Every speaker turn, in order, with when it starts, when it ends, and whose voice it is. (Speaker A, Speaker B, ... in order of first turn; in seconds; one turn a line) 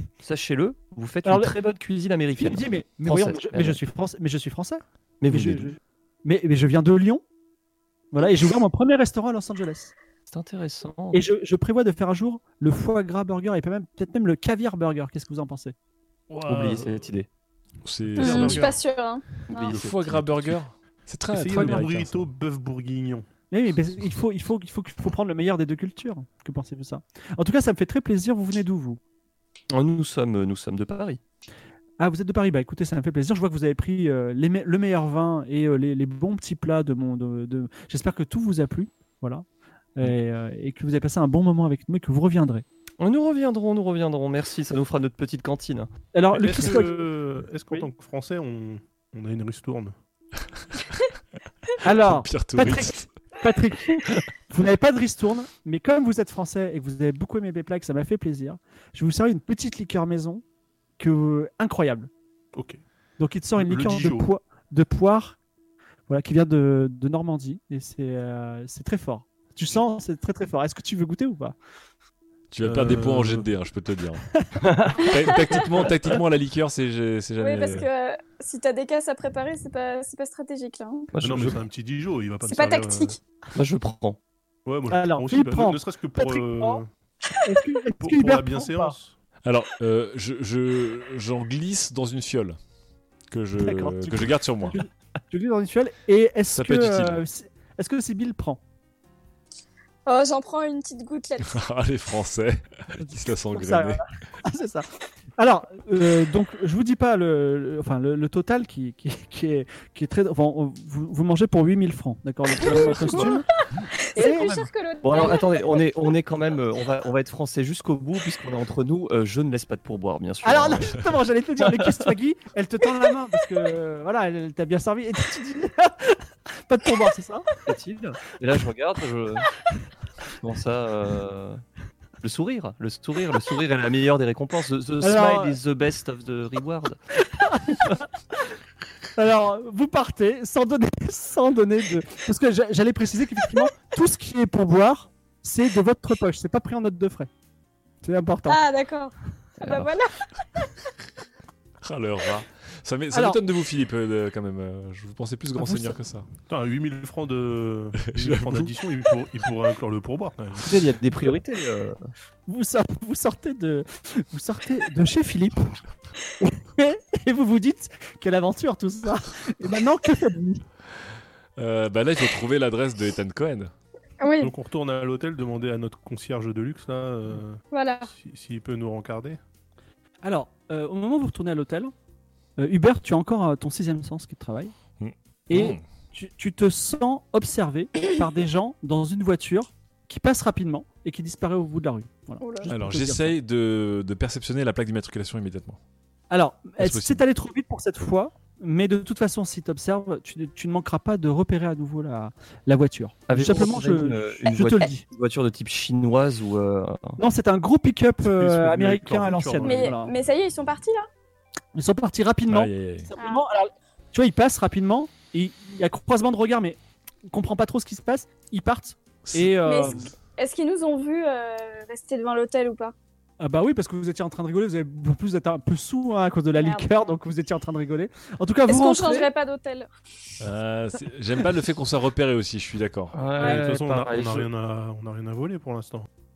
Speaker A: 0.2-3.8
Speaker B: 1.2-1.6
Speaker B: 2.4-7.2
Speaker A: 5.2-5.7
Speaker B: 8.1-9.9
Speaker A: 10.3-11.2
Speaker B: 11.1-15.7
Speaker C: 16.3-17.1
Speaker A: 16.4-17.3
Speaker C: 17.8-18.7
Speaker D: 18.1-18.8
Speaker E: 18.2-19.8
Speaker A: 19.5-20.5
Speaker C: 19.7-22.3
Speaker D: 21.3-23.2
Speaker B: 23.5-29.0
Speaker A: 29.7-31.2
Speaker B: 32.0-39.4
Speaker B: 40.0-42.6
Speaker A: 43.0-45.9
Speaker B: 46.1-47.1
Speaker D: 46.3-49.9
Speaker C: 50.6-51.0
Speaker B: 51.8-60.4
Speaker C: 51.8-53.0
Speaker B: 61.0-62.1
Speaker D: 62.5-62.8
Speaker B: 63.2-65.4
Speaker D: 63.6-64.3
Speaker B: 66.1-71.5
Speaker C: 72.5-74.2
Speaker D: 72.6-73.4
Speaker A: 74.6-75.1
Speaker C: 74.9-77.9
Speaker E: 75.0-75.7
Speaker E: 77.4-81.1
Speaker A: 81.1-81.6
Speaker D: 81.2-83.2
Speaker E: 82.4-83.2
Speaker A: 83.5-84.2
Speaker D: 84.7-86.9
Speaker B: 84.9-86.8
Speaker B: 87.4-89.0
Speaker D: 88.0-89.2
Speaker C: 89.4-92.6
Speaker C: 93.3-94.8
Speaker B: 93.6-98.6
Speaker C: 96.5-97.2
Speaker E: 100.0-101.6
Speaker C: 101.4-104.0
Speaker B: 103.0-113.4
Speaker A: 112.6-113.4
Speaker E: 112.6-113.5
Speaker E: 114.0-115.8
Speaker B: 114.2-114.6
Speaker A: 114.2-121.0
Speaker B: 120.4-127.5
Speaker A: 121.6-122.1
Speaker A: 127.7-129.5
Speaker A: 130.4-131.6
Speaker A: 132.2-137.0
Speaker B: 135.0-135.6
Speaker B: 137.2-138.1
Speaker B: 139.2-147.3
Speaker B: 148.0-148.6
Speaker E: 148.5-150.2
Speaker A: 149.6-149.9
Speaker C: 151.8-156.2
Speaker B: 153.1-153.4
Speaker B: 155.6-156.0
Speaker D: 156.5-160.8
Speaker C: 158.0-158.7
Speaker A: 160.6-162.1
Speaker B: 162.5-165.7
Speaker B: 166.4-170.6
Speaker C: 171.6-173.7
Speaker E: 174.2-174.5
Speaker D: 174.4-179.4
Speaker E: 177.7-178.1
Speaker B: 180.2-181.9
Speaker B: 182.6-184.7
Speaker C: 185.0-185.8
Speaker B: 185.5-193.3
Speaker E: 192.4-192.7
Speaker C: 192.7-195.8
Speaker B: 196.3-205.0
Speaker C: 196.8-197.2
Speaker A: 203.3-207.2
Speaker B: 207.2-210.1
Speaker D: 208.2-209.9
Speaker E: 209.6-211.1
Speaker B: 211.7-216.8
Speaker C: 212.5-213.1
Speaker E: 213.2-213.4
Speaker B: 217.3-220.1
Speaker C: 219.2-220.1
Speaker E: 219.6-222.9
Speaker B: 223.4-229.3
Speaker E: 226.5-226.9
Speaker E: 228.7-229.9
Speaker C: 230.4-233.1
Speaker A: 233.1-234.5
Speaker D: 233.3-236.1
Speaker E: 233.4-233.6